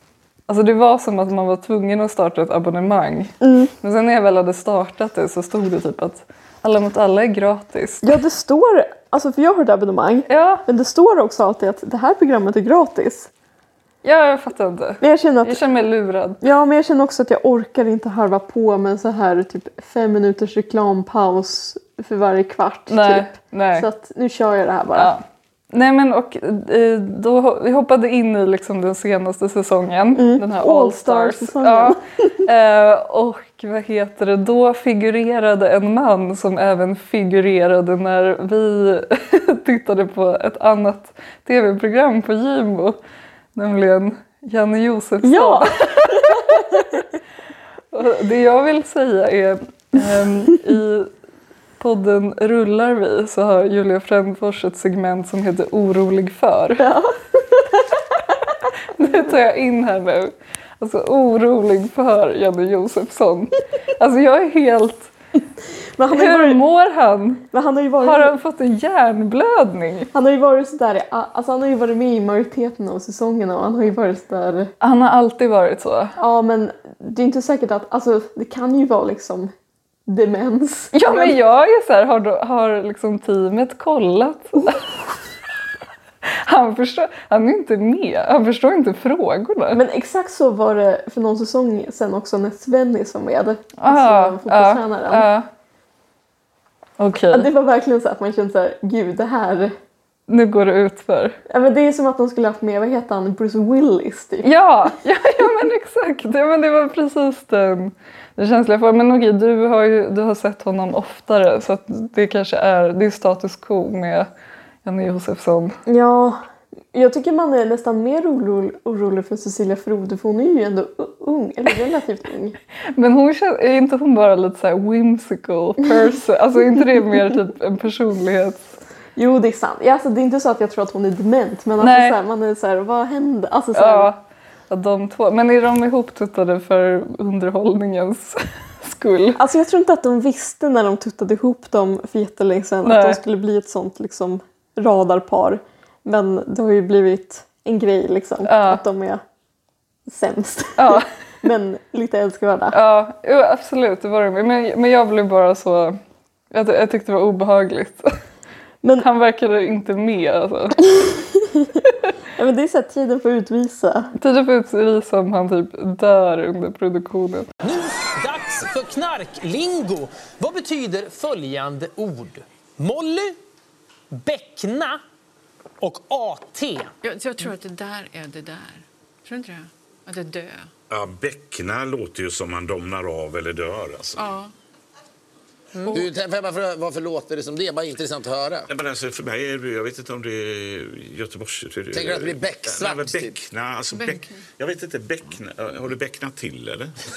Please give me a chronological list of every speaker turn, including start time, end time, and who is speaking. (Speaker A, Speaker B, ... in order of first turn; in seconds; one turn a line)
Speaker A: 0.5-8.1
Speaker B: 3.4-3.7
Speaker B: 8.0-13.3
Speaker A: 10.3-10.6
Speaker A: 14.0-16.4
Speaker B: 15.0-15.6
Speaker B: 16.4-25.1
Speaker A: 22.9-23.9
Speaker A: 24.9-43.0
Speaker B: 30.1-32.3
Speaker A: 43.6-46.6
Speaker B: 45.2-46.8
Speaker A: 47.9-51.1
Speaker A: 51.8-56.9
Speaker B: 56.8-57.9
Speaker A: 59.0-65.1
Speaker B: 66.0-66.6
Speaker A: 66.1-67.5
Speaker B: 67.5-68.3
Speaker A: 68.0-70.1
Speaker B: 70.1-74.7
Speaker A: 74.8-76.1
Speaker B: 76.2-79.5
Speaker B: 80.1-81.4
Speaker A: 80.9-84.8
Speaker A: 86.5-89.8
Speaker B: 89.7-95.3
Speaker A: 93.8-95.5
Speaker A: 97.0-97.5
Speaker B: 97.3-99.7
Speaker A: 100.3-101.4
Speaker B: 101.5-104.5
Speaker A: 104.4-114.3
Speaker A: 114.8-115.8
Speaker B: 115.9-116.4
Speaker B: 116.9-122.6
Speaker A: 123.0-128.7
Speaker B: 129.2-134.1
Speaker A: 131.8-132.2
Speaker A: 133.7-139.4
Speaker B: 139.4-149.2
Speaker A: 142.8-143.2
Speaker A: 148.4-148.8
Speaker B: 150.1-152.8
Speaker A: 150.8-151.1
Speaker A: 152.7-156.0
Speaker A: 156.5-158.1
Speaker A: 159.0-160.8
Speaker B: 161.0-161.8
Speaker B: 162.4-164.1
Speaker A: 164.2-167.5
Speaker C: 167.6-173.4
Speaker C: 174.1-175.0
Speaker C: 175.8-176.9
Speaker D: 177.0-180.7
Speaker E: 180.9-184.2
Speaker D: 184.2-184.5
Speaker C: 185.8-186.0
Speaker F: 185.9-188.7
Speaker E: 188.7-196.9
Speaker F: 191.9-193.4
Speaker D: 193.9-194.4